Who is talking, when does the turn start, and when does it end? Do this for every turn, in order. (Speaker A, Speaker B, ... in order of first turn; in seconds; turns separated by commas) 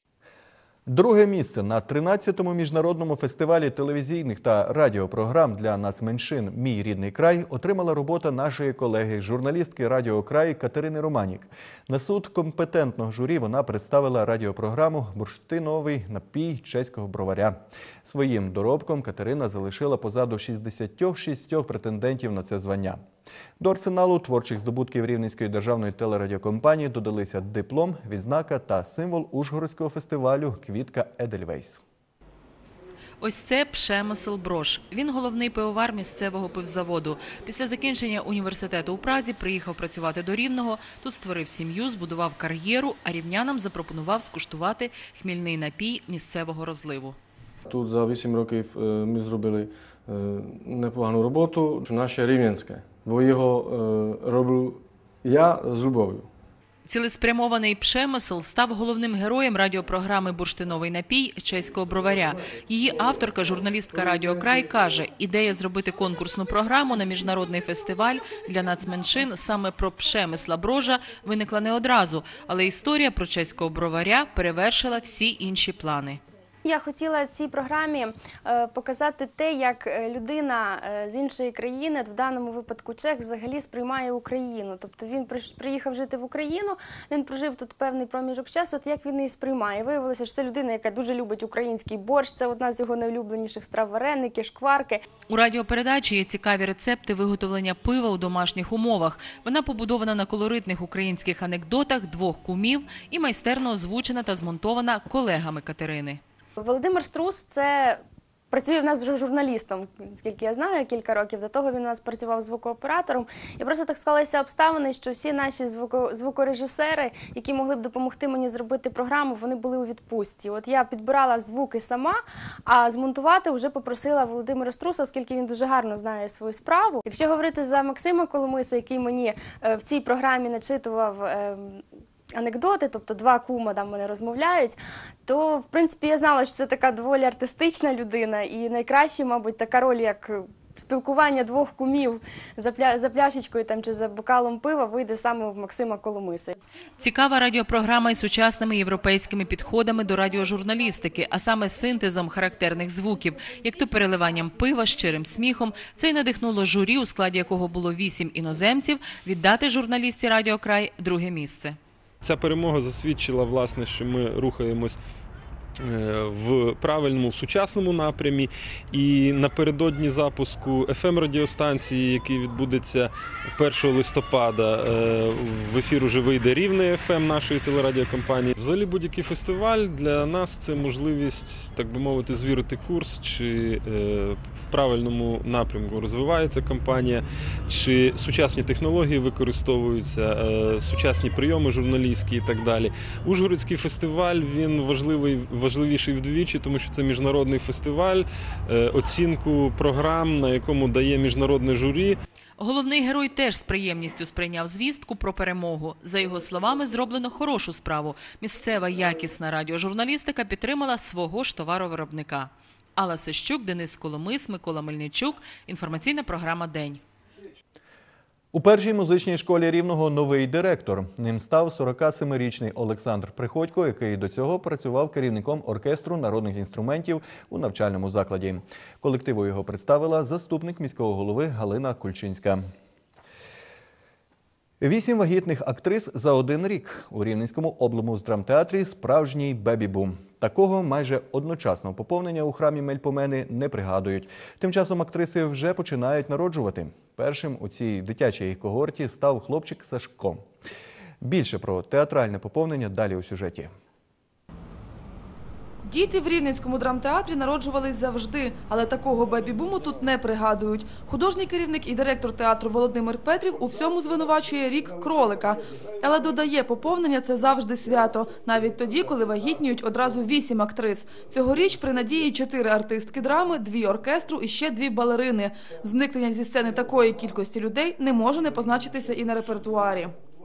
Speaker A: 0.9-23.0, Speaker A: 23.6-31.8, Speaker B: 33.2-47.1, Speaker C: 47.7-56.3, Speaker B: 56.9-76.2, Speaker D: 76.6-95.0, Speaker B: 95.3-106.2, Speaker D: 106.6-108.0, Speaker D: 108.5-131.8, Speaker D: 132.3-146.5, Speaker B: 147.0-161.8, Speaker E: 162.2-165.0, Speaker E: 165.8-202.2, Speaker B: 202.6-217.0, Speaker A: 218.5-232.6, Speaker A: 234.8-250.4, Speaker A: 251.2-253.7, Speaker F: 255.8-280.1